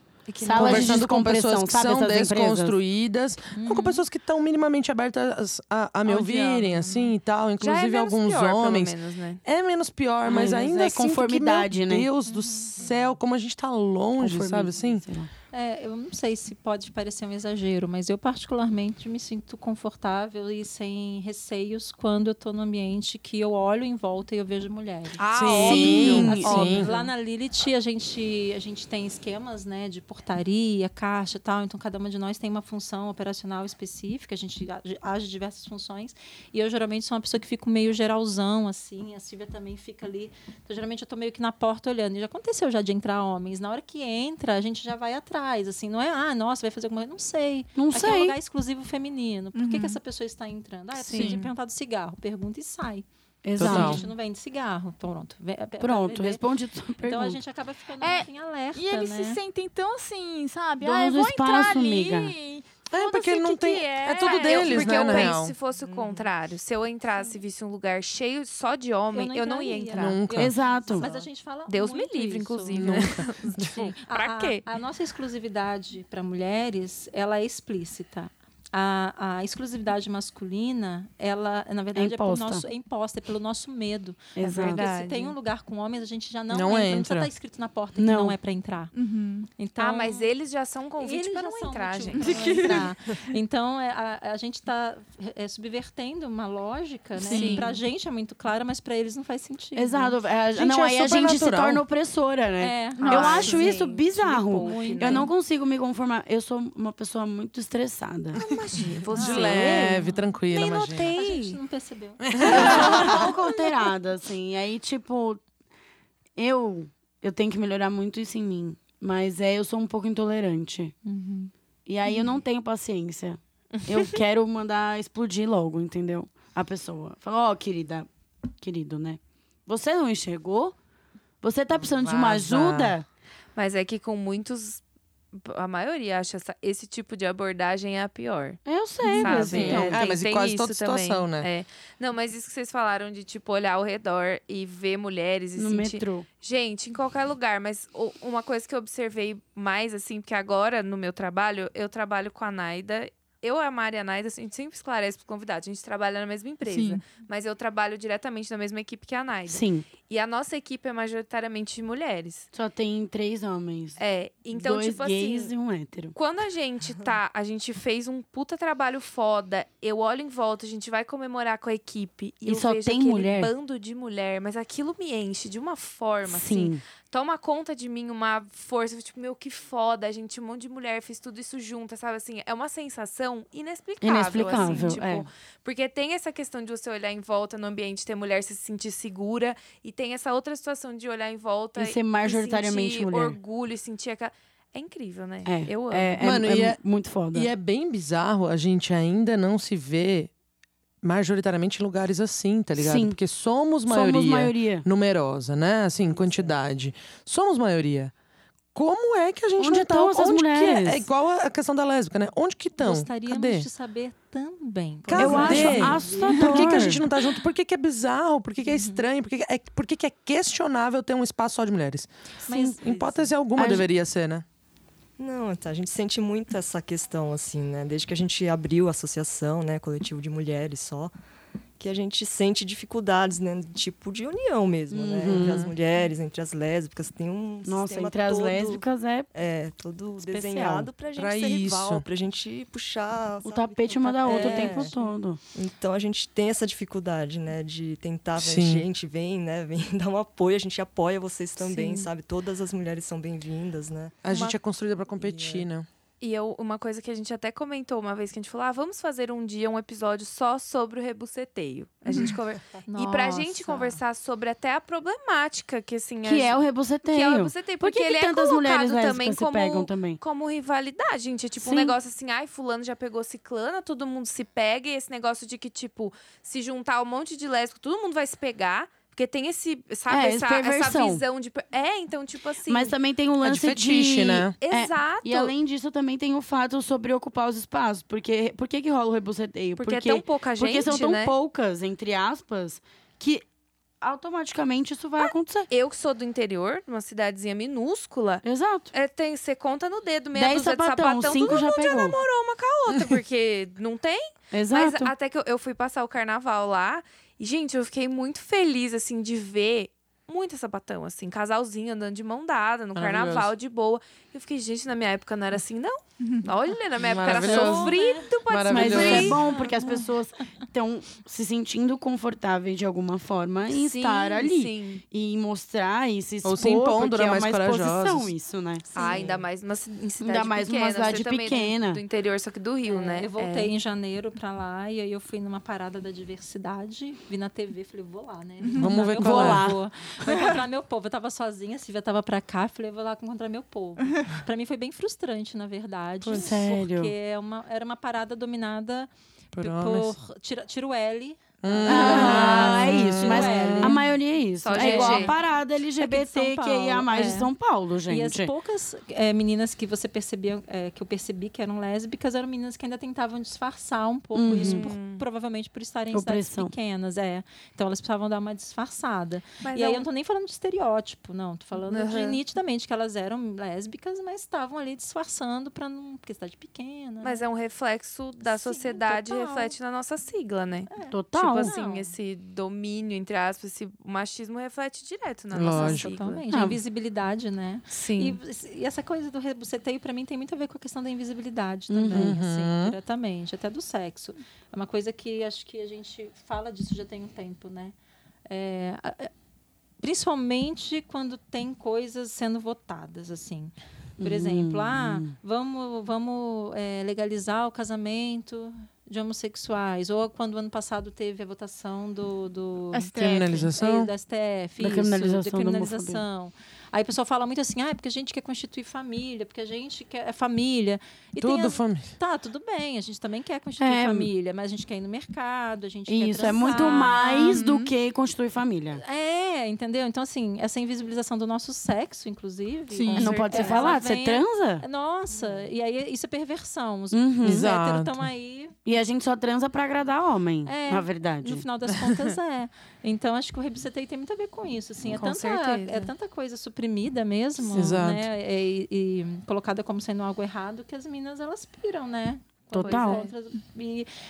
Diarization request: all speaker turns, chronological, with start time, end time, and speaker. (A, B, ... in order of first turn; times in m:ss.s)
0:00.3-0:01.0 A
0:00.4-0:02.8 B
0:00.5-0:08.9 C
0:03.5-0:04.0 D
0:06.1-0:07.1 E
0:07.6-0:09.4 A
0:09.4-0:15.0 C
0:10.2-0:12.1 B
0:12.3-0:12.9 D
0:14.2-0:15.3 B
0:15.5-0:25.2 D
0:25.2-0:27.1 A
0:25.4-0:26.9 C
0:25.6-0:26.7 B
0:26.2-0:56.4 D
0:47.8-0:48.4 B
0:49.5-0:50.0 E
0:51.0-0:51.4 A
0:51.1-0:51.5 E
0:53.4-0:54.1 B
0:53.6-0:54.0 C
0:55.8-0:57.4 B
0:57.0-0:59.4 D
0:58.0-1:05.2 E
1:00.8-1:02.4 B
1:02.9-1:05.6 C
1:04.2-1:10.2 A
1:05.8-1:06.3 F
1:09.1-1:28.9 D
1:09.9-1:10.6 C
1:10.3-1:11.1 B
1:11.0-1:11.2 F
1:11.7-1:14.6 A
1:12.7-1:13.9 C
1:22.0-1:22.6 B
1:24.4-1:24.8 B
1:24.4-1:25.4 A
1:26.5-1:27.3 C
1:28.0-1:28.4 B
1:28.9-1:29.5 E
1:29.5-1:30.3 D
1:29.8-1:32.9 A
1:31.0-1:40.2 D
1:32.2-1:32.8 E
1:37.2-1:37.8 E
1:37.3-1:37.7 A
1:39.8-1:48.4 B
1:40.5-1:41.8 C
1:42.6-1:45.3 D
1:43.0-1:45.3 A
1:48.4-1:51.6 A
1:49.1-1:51.1 C
1:49.1-1:50.2 D
1:51.0-1:53.3 D
1:52.2-1:53.2 C
1:52.5-1:55.4 B
1:52.5-1:52.8 A
1:56.4-2:00.9 B
2:01.0-2:01.5 D
2:01.9-2:08.1 B
2:03.7-2:04.2 A
2:08.6-2:10.8 B
2:11.4-2:13.0 B
2:11.8-2:12.9 C
2:13.6-2:14.8 A
2:15.3-2:42.5 A
2:18.6-2:20.0 B
2:19.0-2:19.5 E
2:19.3-2:21.5 C
2:25.6-2:26.3 B
2:36.6-2:37.0 E
2:39.5-2:39.9 B
2:42.5-2:44.0 B
2:44.0-2:45.5 A
2:44.5-2:46.2 B
2:46.1-3:16.2 A
2:52.4-2:53.5 B
2:56.2-2:56.8 B
3:04.0-3:05.3 B
3:11.8-3:13.4 B
3:15.5-3:17.5 B
3:16.2-3:16.8 C
3:17.3-3:20.3 C
3:21.0-3:28.1 C
3:22.8-3:23.2 B
3:23.9-3:24.8 B
3:26.1-3:26.6 F
3:28.8-3:33.7 C
3:29.6-3:31.1 B
3:32.8-3:36.9 D
3:35.1-3:42.1 C
3:35.1-3:37.1 B
3:36.3-3:36.7 E
3:38.6-3:39.1 D
3:42.5-3:43.2 D
3:42.5-3:42.8 B
3:42.8-3:44.4 C
3:43.6-3:43.9 B
3:45.2-3:51.1 F
3:51.8-4:05.0 F
3:54.9-3:55.7 B
3:57.6-3:59.3 B
4:00.2-4:00.9 B
4:01.2-4:02.0 C
4:03.4-4:05.4 B
4:04.2-4:05.1 D
4:05.5-4:14.2 F
4:08.4-4:08.9 C
4:11.7-4:12.0 D
4:14.2-4:15.9 C
4:15.2-4:15.6 F
4:16.2-4:42.9 A
4:22.1-4:22.4 E
4:22.1-4:24.0 D
4:26.2-4:30.2 B
4:31.6-4:32.0 B
4:40.1-4:41.2 B
4:42.7-4:53.4 B
4:43.4-4:44.5 C
4:44.6-4:45.6 A
4:49.8-4:51.4 A
4:54.0-4:55.7 B
4:55.2-5:19.4 A
4:58.4-4:58.9 B
5:00.3-5:02.2 B
5:04.5-5:05.1 B
5:13.0-5:13.5 C
5:16.2-5:16.5 E
5:17.0-5:18.0 C
5:17.3-5:18.3 D
5:18.5-5:19.4 C
5:18.7-5:28.9 B
5:19.1-5:20.0 D
5:23.7-5:25.0 A
5:26.4-5:28.3 C
5:28.9-5:33.7 A
5:29.0-5:29.5 F
5:30.2-5:32.0 B
5:32.9-5:54.1 D
5:38.6-5:39.0 E
5:38.8-5:39.8 C
5:39.2-5:40.5 B
5:46.2-5:46.6 C
5:46.3-5:47.1 B
5:49.5-5:50.2 C
5:51.6-5:54.0 C
5:51.8-5:58.5 B
5:54.6-5:55.4 A
5:54.7-5:55.4 D
5:56.0-5:57.5 D
5:58.1-6:17.4 D
6:04.3-6:04.9 B
6:04.5-6:05.2 A
6:06.1-6:06.7 B
6:09.6-6:10.0 A
6:11.8-6:12.4 A
6:17.2-6:26.4 A
6:18.4-6:19.8 D
6:20.9-6:22.1 D
6:21.1-6:21.7 B
6:25.5-6:26.1 C
6:25.7-6:38.0 D
6:26.5-6:26.8 B
6:27.9-6:28.4 A
6:31.9-6:32.3 B
6:32.1-6:33.0 C
6:38.5-6:39.3 D
6:40.0-7:07.6 D
6:44.2-6:45.4 B
6:52.9-6:53.6 E
6:53.2-6:54.1 C
6:54.8-6:56.2 B
7:01.4-7:02.1 C
7:03.8-7:04.3 B
7:06.1-7:09.0 B
7:06.8-7:07.9 E
7:08.9-7:18.8 D
7:12.9-7:13.5 E
7:13.2-7:14.8 B
7:13.2-7:14.0 A
7:17.1-7:17.7 B
7:17.4-7:18.3 C
7:18.8-7:21.6 B
7:20.6-7:34.1 D
7:25.1-7:26.1 A
7:27.6-7:28.2 C
7:32.7-7:33.2 B
7:32.8-7:33.3 A